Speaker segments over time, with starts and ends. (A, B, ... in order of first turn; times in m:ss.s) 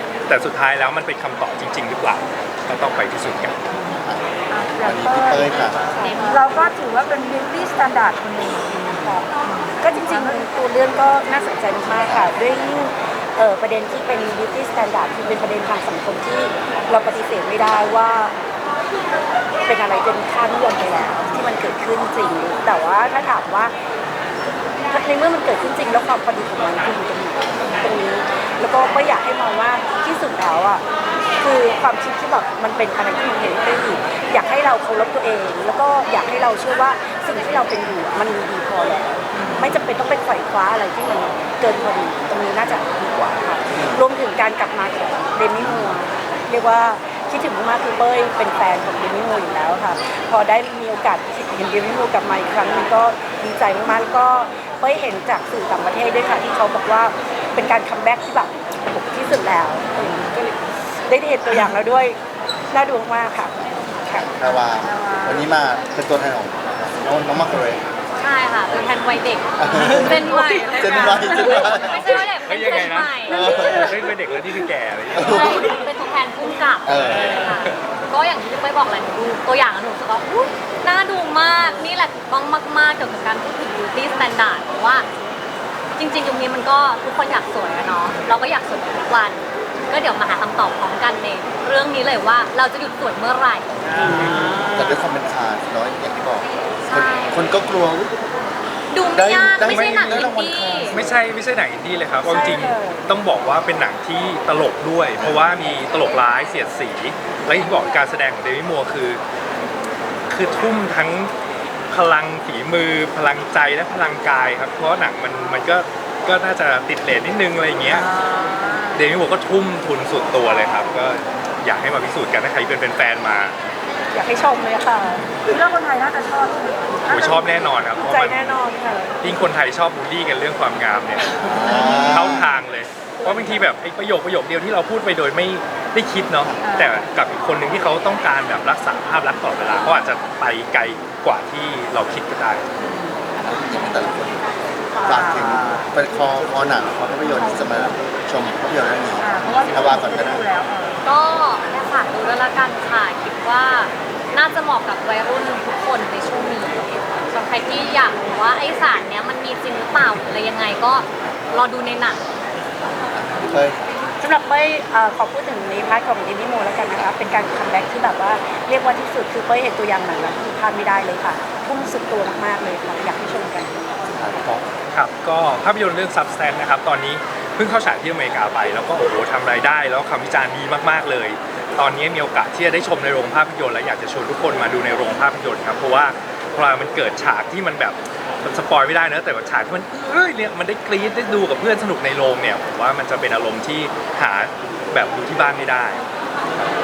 0:00.3-0:03.6 A
0:03.9-0:06.0 B
0:04.5-0:05.5 C
0:05.5-0:06.5 D
0:05.8-0:06.7 E
0:06.2-0:10.5 C
0:08.9-0:18.4 E
0:11.9-0:12.3 B
0:19.6-0:23.7 E
0:24.9-0:30.8 E
0:31.4-1:02.2 E
0:43.7-0:44.0 B
1:02.7-1:04.3 E
1:04.4-1:07.8 B
1:04.8-1:05.5 C
1:08.2-1:13.7 D
1:09.6-1:12.2 B
1:12.1-1:15.6 A
1:13.3-1:14.0 B
1:15.1-1:15.7 B
1:15.2-1:25.1 D
1:16.8-1:17.5 B
1:26.0-1:33.7 D
1:33.9-1:38.2 B
1:34.2-1:34.6 A
1:36.8-1:37.5 D
1:38.9-1:41.0 D
1:39.1-1:41.2 B
1:39.7-1:40.3 A
1:40.9-1:49.2 A
1:42.2-1:43.1 E
1:45.2-1:45.4 B
1:50.3-1:51.3 A
1:51.9-1:58.2 A
1:58.1-1:59.0 C
1:58.9-2:03.6 A
2:04.1-2:05.4 E
2:05.4-2:07.8 C
2:07.0-2:08.6 A
2:08.0-2:09.2 E
2:09.2-2:22.7 A
2:11.4-2:12.6 B
2:11.6-2:12.4 C
2:13.2-2:13.7 E
2:16.6-2:17.0 C
2:23.4-2:24.4 B
2:25.0-2:25.8 C
2:25.0-2:30.4 B
2:27.2-2:27.8 C
2:29.2-2:31.0 C
2:31.0-2:42.2 D
2:43.2-2:43.8 B
2:44.2-2:54.5 E
2:54.2-2:54.6 B
2:54.9-3:16.0 A